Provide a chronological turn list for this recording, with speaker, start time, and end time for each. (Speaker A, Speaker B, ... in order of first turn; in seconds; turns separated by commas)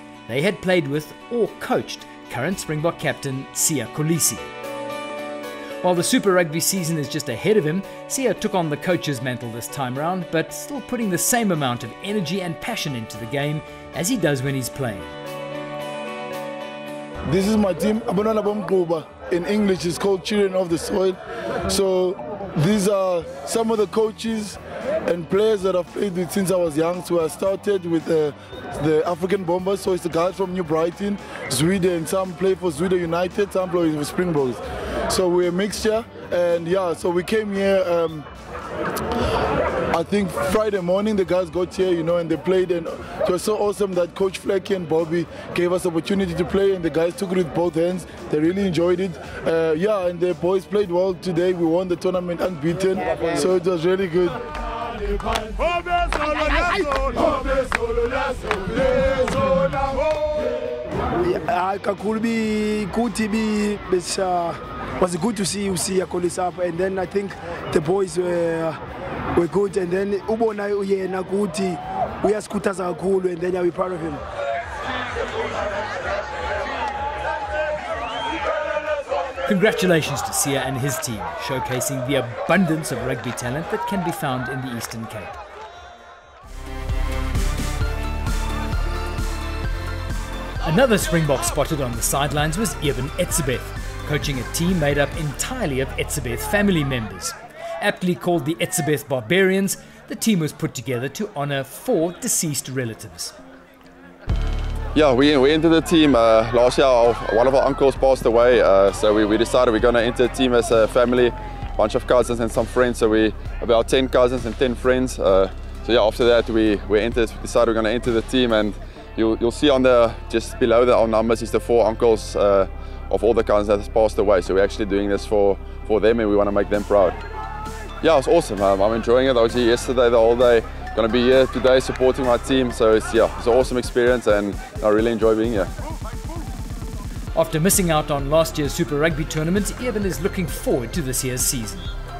Speaker A: 0.3-4.5, Speaker A: 5.8-15.1, Speaker B: 17.3-38.3, Speaker B: 39.9-60.0, Speaker C: 61.1-68.8, Speaker C: 69.3-74.2, Speaker A: 79.5-85.4, Speaker A: 90.6-103.4, Speaker D: 105.0-127.2, Speaker D: 128.0-135.7, Speaker A: 137.3-141.9